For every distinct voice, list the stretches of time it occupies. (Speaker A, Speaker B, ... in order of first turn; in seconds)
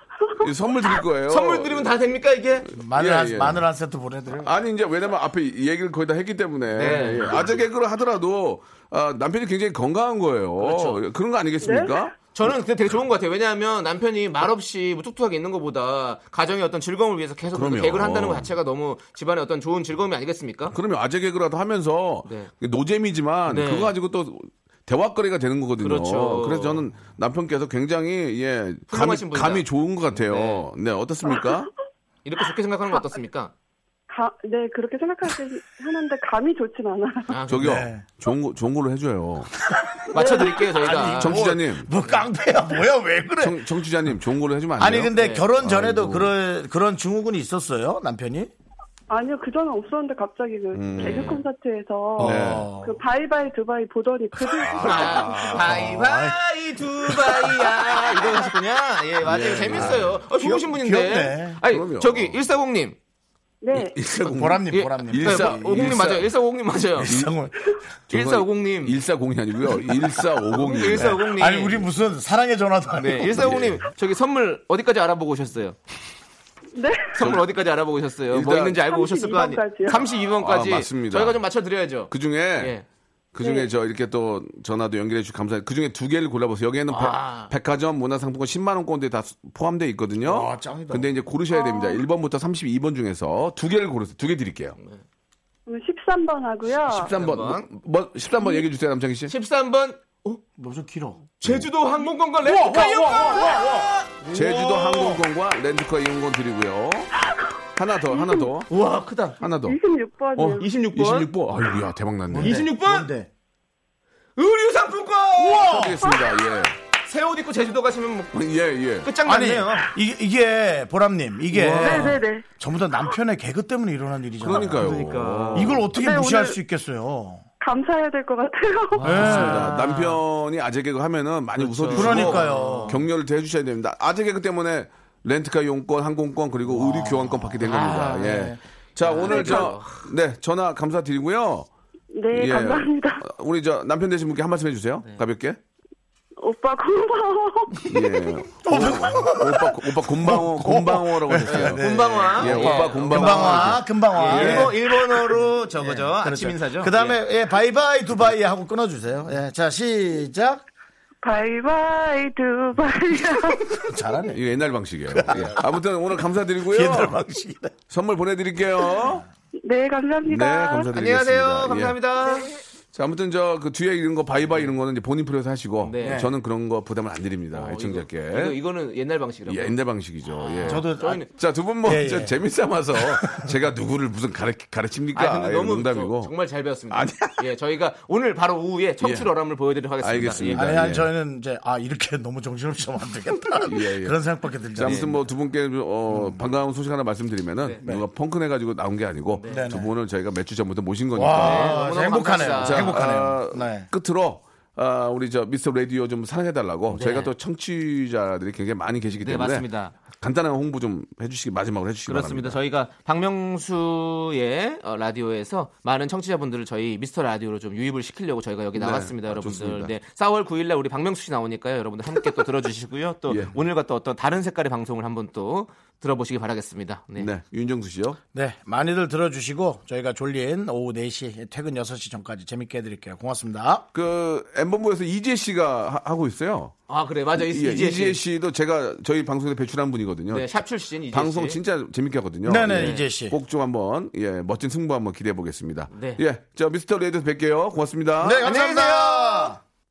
Speaker A: 0.4-1.9, 2.8-3.6, 4.4-12.5, 17.5-18.5, 20.7-31.7, 37.5-39.5, 41.1-41.9, 43.4-46.3, 50.7-51.4, 52.2-52.7, 54.6-56.0, 59.2-60.2, 61.6-62.4, 63.7-66.3, 68.1-71.2, 73.3-73.8, 77.2-77.4, 78.3-78.8, 80.4-81.4, 82.1-82.7, 83.3-94.8, 96.8-99.3, 101.4-101.7, 102.5-103.6, 104.3-107.1, 107.8-108.7, 109.4-109.8, 110.3-112.7, 115.5-116.8, 118.3-119.1, 124.4-125.8, 129.2-141.7, 142.3-145.6, 147.9-154.7, 164.3-167.2, 167.9-169.2, 170.2-172.0, 172.9-178.6, 179.5-186.3, 186.9-187.4, 189.0-189.3, 190.0-191.1, 193.6-194.2, 194.7-201.8, 202.5-212.6, 218.7-219.9, 223.3-223.5, 227.2-228.2, 233.9-236.7, 237.3-240.5, 241.1-248.5
Speaker B: 1.2-2.7, 6.8-7.4, 10.6-11.0, 12.3-20.8, 22.2-22.5, 23.5-23.9, 25.8-26.8, 28.9-30.6, 32.2-33.5, 37.3-37.8, 40.1-41.4, 45.1-45.5, 51.0-51.4, 54.8-63.0, 64.7-67.2, 68.1-69.0, 70.5-71.9, 73.0-75.8, 77.2-82.8, 86.9-87.5, 97.0-97.7, 99.3-100.4, 101.4-105.2, 108.7-109.4, 110.6-111.3, 112.4-113.1, 114.4-116.0, 117.0-119.9, 121.5-122.2, 124.5-125.8, 128.9-130.2, 131.6-133.0, 137.6-140.1, 151.4-157.2, 170.9-172.6, 175.8-176.3, 177.5-179.8, 180.3-181.3, 185.1-190.6, 194.8-195.2, 199.4-199.7, 201.3-203.0, 206.9-207.3, 209.2-209.9, 212.1-227.3, 236.9-238.2, 240.3-241.6, 242.7-243.1, 245.9-246.2, 248.4-249.6
Speaker C: 2.7-4.6, 37.5-38.0, 39.7-43.7, 44.8-48.5, 52.2-53.0, 55.5-56.4, 57.0-58.4, 59.5-61.6, 64.2-66.0, 67.0-67.8, 70.8-73.6, 90.2-91.1, 100.6-101.2, 102.6-105.2, 112.3-113.3, 115.4-116.1, 119.2-124.9, 125.5-127.4, 129.0-129.8, 131.9-133.0, 136.7-137.7, 138.3-138.6, 148.6-160.6, 163.8-164.4, 165.1-165.6, 166.6-167.7, 176.0-176.3, 180.6-181.2, 181.8-182.4, 182.9-183.5, 190.5-195.1, 196.1-196.4, 199.5-199.9, 201.1-203.9, 228.3-233.8, 242.4-243.3, 248.2-249.6
Speaker D: 11.6-12.1, 34.1-37.4, 40.1-40.6, 49.1-55.7, 63.6-64.0, 76.7-77.2, 78.8-80.1, 83.4-83.7, 91.5-92.0, 95.7-97.1, 108.1-108.5, 109.5-110.7, 121.8-122.4, 125.9-126.6, 127.6-129.2, 139.3-139.7, 142.1-143.2, 146.4-147.9, 161.2-163.9, 169.6-170.9